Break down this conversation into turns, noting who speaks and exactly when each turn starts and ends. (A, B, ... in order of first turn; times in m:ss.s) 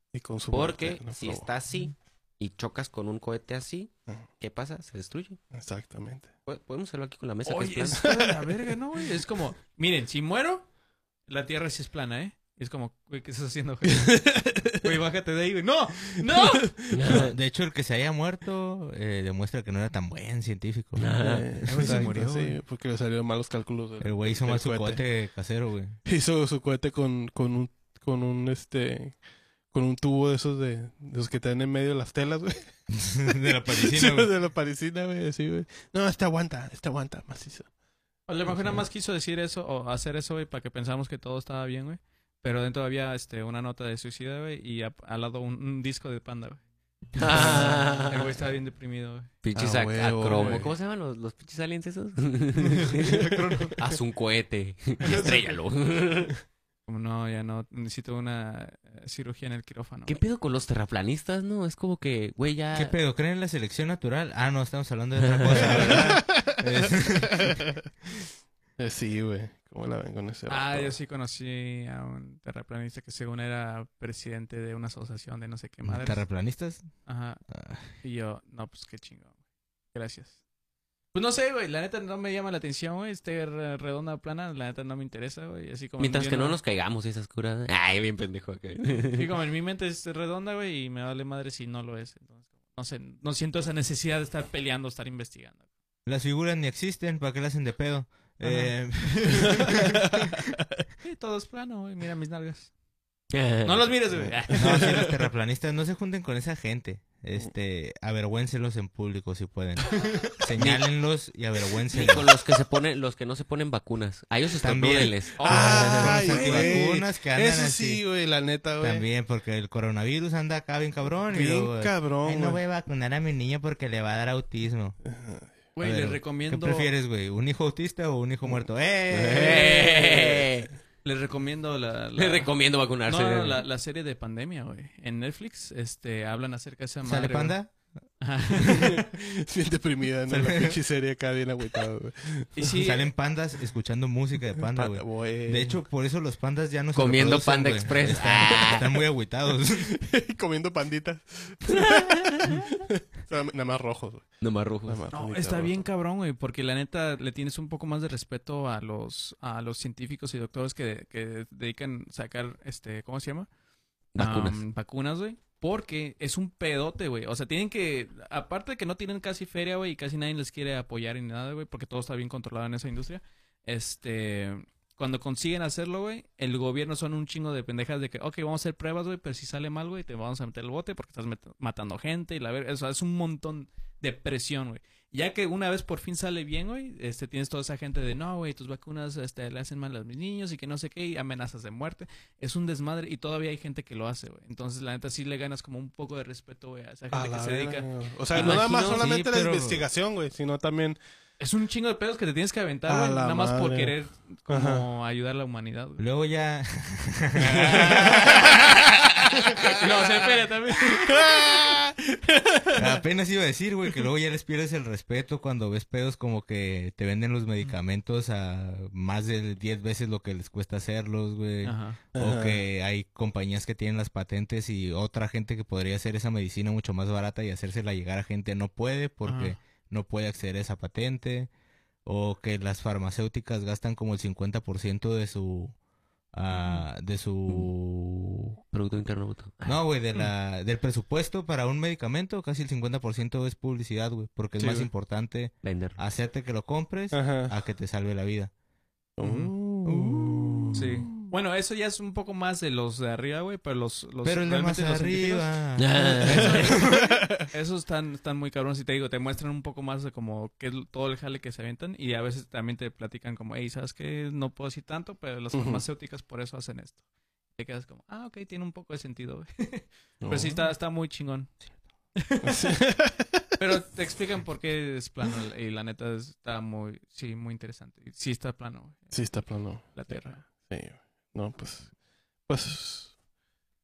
0:00.1-0:01.5 A
0:00.5-0:05.4 B
0:05.5-0:06.3 A
0:06.4-0:08.0 B
0:07.4-0:10.7 C
0:08.0-0:08.6 A
0:11.3-0:17.0 C
0:14.0-0:14.7 A
0:16.2-0:17.3 A
0:16.9-0:17.3 B
0:17.1-0:21.1 D
0:21.0-0:21.5 B
0:21.2-0:25.0 A
0:21.7-0:22.6 C
0:24.0-0:26.0 D
0:26.0-0:29.2 A
0:29.7-0:32.7 A
0:33.0-0:34.3 D
0:33.3-0:37.7 A
0:38.3-0:46.6 C
0:47.1-0:48.3 B
0:47.2-0:49.3 C
0:47.3-0:47.7 A
0:49.4-0:56.3 B
0:49.5-0:50.7 A
0:50.3-0:50.6 C
0:52.7-0:53.8 C
0:55.0-0:55.6 C
0:56.9-1:00.2 C
1:00.0-1:02.9 B
1:02.7-1:07.6 D
1:05.2-1:06.0 B
1:05.5-1:06.6 A
1:07.3-1:07.6 A
1:08.8-1:11.0 A
1:10.5-1:16.3 C
1:15.8-1:16.9 D
1:17.0-1:19.3 C
1:17.5-1:17.9 D
1:19.9-1:20.4 C
1:21.1-1:26.6 C
1:26.0-1:29.3 B
1:29.1-1:35.6 C
1:36.0-1:40.0 D
1:38.4-1:39.8 C
1:41.0-1:42.7 C
1:43.3-1:44.2 B
1:43.6-1:45.1 C
1:44.1-1:45.1 A
1:44.5-1:52.3 D
1:50.6-1:50.8 B
1:51.9-1:56.7 B
1:54.6-1:58.0 D
1:55.4-1:56.8 C
1:55.4-1:59.0 A
1:58.8-2:05.0 D
2:01.3-2:02.6 A
2:05.1-2:05.5 A
2:05.8-2:06.9 C
2:05.8-2:10.0 D
2:09.1-2:10.7 B
2:11.0-2:17.6 C
2:12.1-2:13.6 B
2:17.0-2:17.8 D
2:18.2-2:19.1 C
2:18.6-2:18.9 D
2:18.7-2:22.8 A
2:20.3-2:20.8 D
2:22.6-2:23.1 C
2:22.8-2:29.9 D
2:24.7-2:25.8 A
2:26.9-2:28.9 B
2:29.8-2:34.3 A
2:34.4-2:35.0 B
2:34.8-2:35.8 A
2:35.1-2:43.5 C
2:44.1-2:44.6 B
2:44.2-3:18.8 C
3:17.1-3:21.0 A
3:18.3-3:19.0 B
3:18.7-3:19.8 D
3:21.4-3:26.0 C
3:22.9-3:23.9 A
3:24.5-3:24.8 A
3:26.0-3:29.6 D
3:27.5-3:28.6 A
3:27.7-3:28.5 C
3:29.6-3:31.9 C
3:29.6-3:30.2 A
3:30.9-3:31.9 A
3:32.5-3:33.0 C
3:32.8-3:51.5 D
3:41.6-3:42.0 C
3:42.1-3:42.6 A
3:49.2-3:49.6 C
3:52.0-3:55.8 D
3:56.3-3:58.6 D
3:56.5-3:56.8 C
3:58.7-3:59.8 B
3:59.6-4:08.5 D
4:04.6-4:04.9 C
4:05.6-4:06.0 B
4:07.1-4:07.5 A
4:09.2-4:11.1 A
4:09.2-4:09.5 C
4:09.8-4:10.9 D
4:10.7-4:27.0 C
4:14.2-4:17.2 D
4:15.8-4:16.8 B
4:16.9-4:17.3 A
4:25.5-4:25.8 A
4:27.6-4:31.6 C
4:30.2-4:30.7 A
4:32.2-4:32.8 C
4:32.4-4:33.4 A
4:33.6-4:40.4 C
4:39.1-4:41.9 A
4:42.4-4:43.1 A